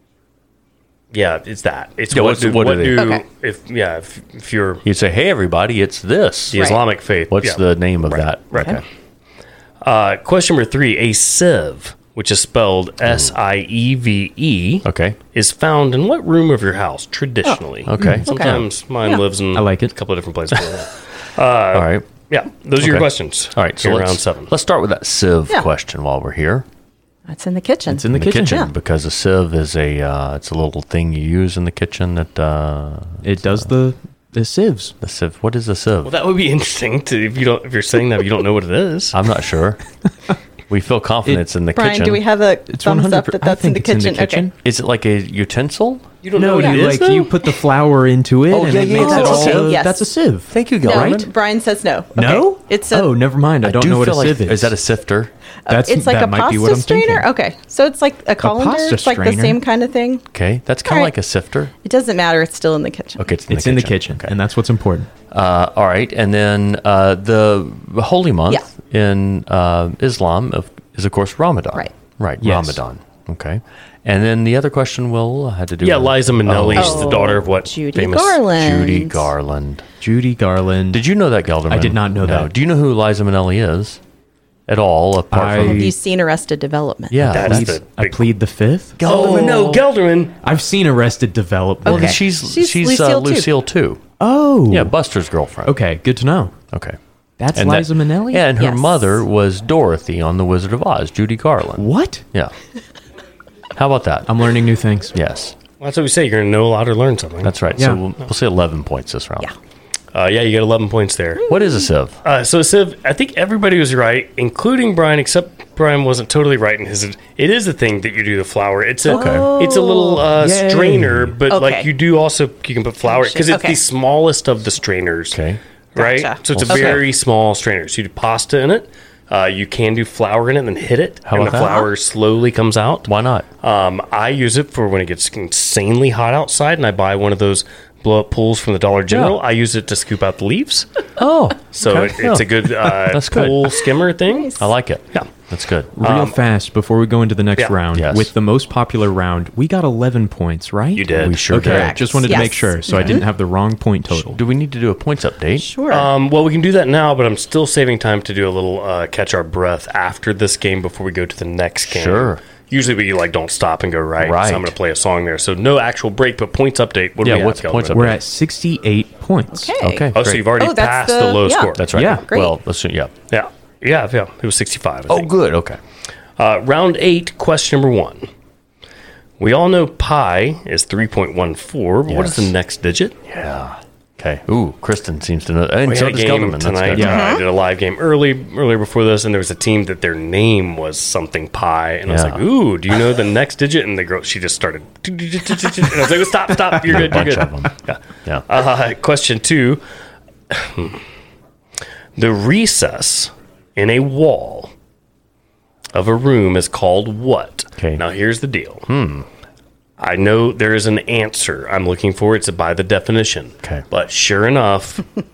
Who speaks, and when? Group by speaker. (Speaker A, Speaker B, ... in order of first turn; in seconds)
Speaker A: 1.1-4.8, 6.5-8.8, 9.8-24.5, 36.0-39.2, 46.2-47.5, 75.8-78.4, 87.3-88.3, 89.0-90.4, 105.8-107.6, 110.1-111.4, 112.2-125.4, 126.0-133.1, 133.6-141.0, 141.7-145.3, 146.0-146.4, 150.9-151.4, 155.9-168.2, 170.1-171.9, 173.3-175.3, 176.4-178.3, 179.4-183.2, 185.8-199.8, 200.5-201.0, 202.2-204.7, 205.9-208.9, 210.0-215.1
Speaker B: 2.1-3.1, 4.8-6.8, 7.3-8.8, 13.1-13.3, 14.8-15.2, 17.9-18.7, 21.7-22.1, 22.8-26.7, 28.1-33.7, 35.0-36.2, 39.1-39.8, 40.7-42.2, 44.6-46.1, 48.5-49.8, 50.5-51.3, 53.6-55.3, 60.3-61.7, 63.2-64.4, 65.3-77.3, 78.5-79.9, 80.9-84.0, 84.7-85.9, 87.1-87.8, 89.0-89.9, 91.8-94.0, 94.7-95.8, 96.7-97.0, 97.5-102.5, 103.8-104.5, 105.1-105.6, 107.4-109.5, 111.5-112.2, 119.0-119.5, 125.3-125.6, 126.5-127.1, 131.3-131.8, 133.1-133.5, 139.1-139.4, 141.2-143.9, 144.6-145.9, 147.9-148.3, 151.1-153.2, 154.1-155.7, 161.8-162.4, 164.2-164.8, 167.2-168.2, 169.8-170.5, 171.8-173.1, 175.1-175.8, 182.1-182.5, 183.2-187.2, 192.1-192.5, 196.8-198.5, 207.8-208.0, 208.9-209.3
Speaker C: 3.0-3.2, 6.5-6.8, 18.2-19.2, 27.3-28.7, 41.7-44.5, 46.5-46.8, 48.9-50.1, 50.8-53.2, 55.7-60.3, 60.9-61.1, 61.8-63.3, 76.8-79.3, 85.6-87.3, 91.9-93.5, 98.5-99.2, 111.4-111.9, 119.1-120.3, 121.5-121.9, 123.0-123.8, 126.0-127.0, 131.5-131.9, 144.3-144.7, 151.6-153.3, 155.6-156.1, 169.5-172.6, 187.0-187.4
Speaker D: 18.0-18.2, 19.6-19.9, 27.9-28.6, 33.2-35.0, 42.7-44.5, 46.4-51.3, 52.2-54.8, 55.7-57.3, 58.4-59.6, 63.5-65.1, 72.4-72.8, 80.0-81.0, 81.7-82.5, 85.3-86.0, 87.3-89.3, 90.4-92.2, 94.2-94.9, 95.7-96.6, 97.4-98.5, 101.8-102.2, 104.3-105.2, 120.3-121.4, 146.0-154.4, 167.9-169.7, 171.9-172.2, 187.0-187.2